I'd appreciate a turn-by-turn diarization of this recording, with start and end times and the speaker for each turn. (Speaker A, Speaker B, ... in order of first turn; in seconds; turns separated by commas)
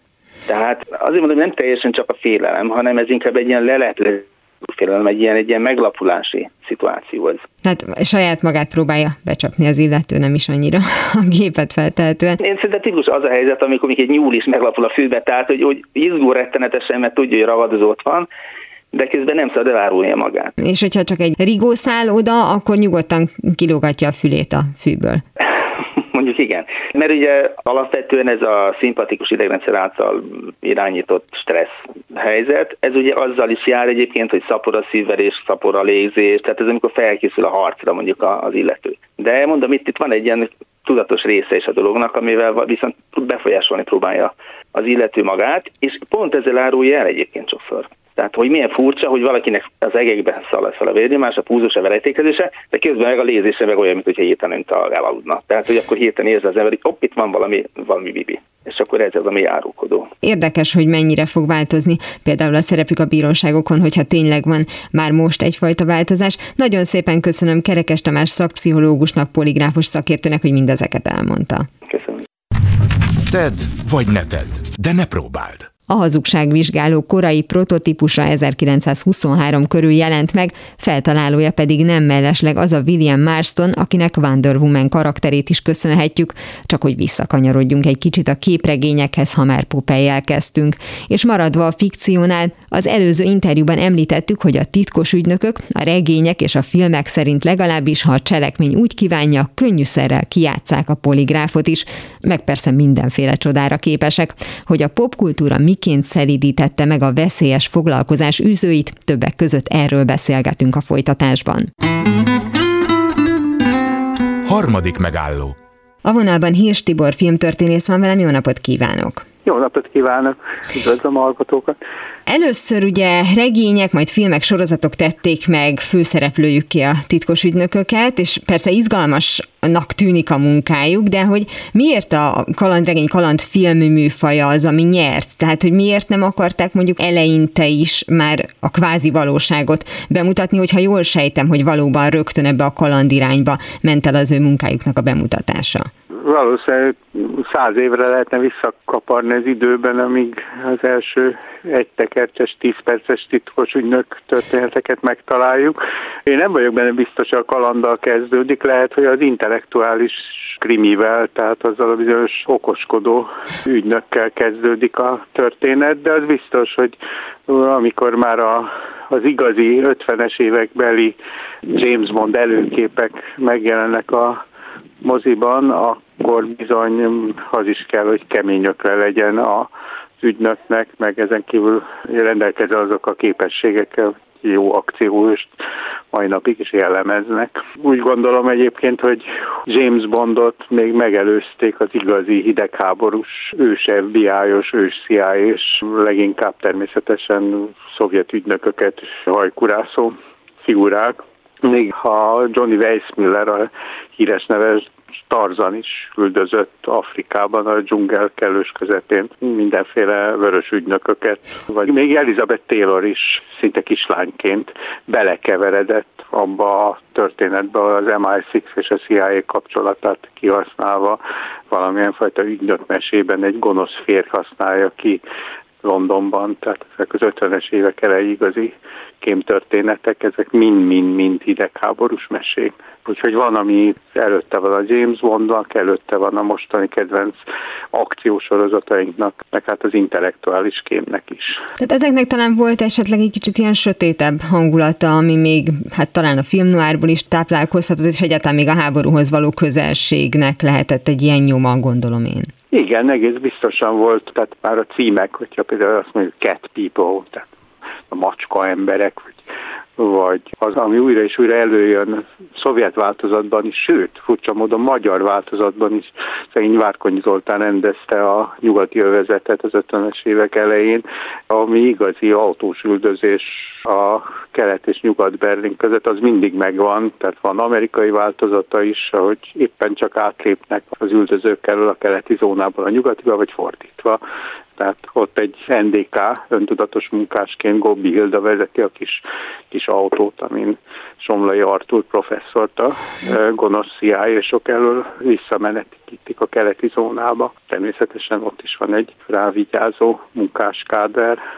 Speaker A: 0.5-7.5, Speaker B: 7.6-12.4, Speaker A: 12.4-18.3, Speaker A: 18.9-20.6, Speaker B: 20.6-25.2, Speaker A: 25.9-60.1, Speaker B: 60.2-71.7, Speaker A: 71.9-72.2, Speaker C: 73.2-75.7, Speaker B: 75.9-111.7, Speaker C: 114.5-115.6, Speaker B: 116.0-119.3, Speaker D: 119.5-121.8, Speaker B: 122.3-145.9, Speaker D: 146.2-171.2, Speaker D: 171.7-174.4, Speaker D: 175.0-185.5, Speaker D: 186.1-221.2, Speaker D: 221.7-225.2, Speaker D: 225.8-237.4, Speaker D: 237.9-241.6, Speaker B: 241.8-252.5, Speaker D: 252.7-257.5, Speaker D: 258.1-259.4, Speaker D: 260.0-284.2, Speaker D: 284.8-301.4